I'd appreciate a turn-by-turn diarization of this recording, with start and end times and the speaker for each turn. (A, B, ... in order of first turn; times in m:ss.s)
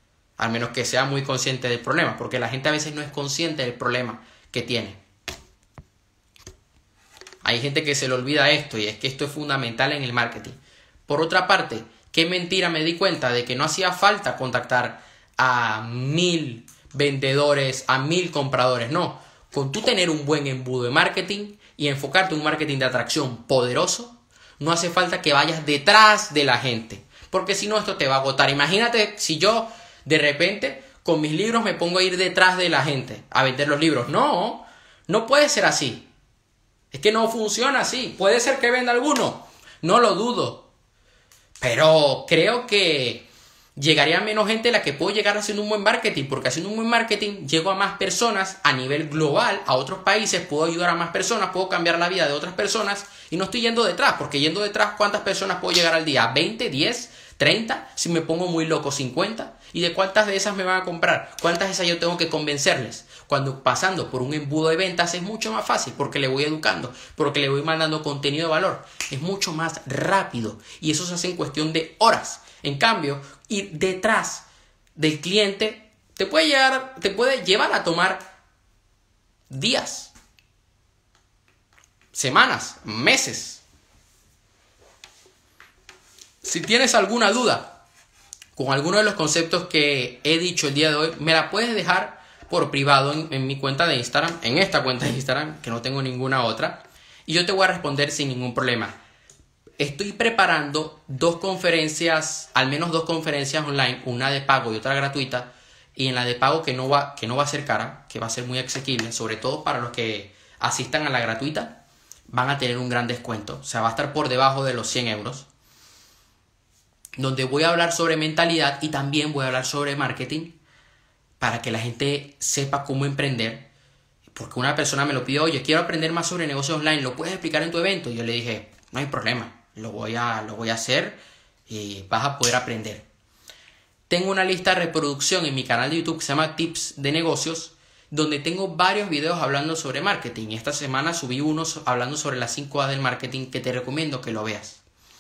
0:00.4-0:05.0 A
0:07.4-0:36.1 A
0:36.9-0:40.7 A
0:41.6-1:14.4 A
1:15.0-1:18.3 A
1:19.5-1:20.1 A
1:22.1-1:23.6 A
1:26.4-1:27.8 A
1:28.6-1:39.0 A
1:39.8-1:55.5 A
1:57.2-2:00.6 A
2:01.4-2:03.7 A
2:04.3-2:13.1 A
2:14.1-2:24.8 A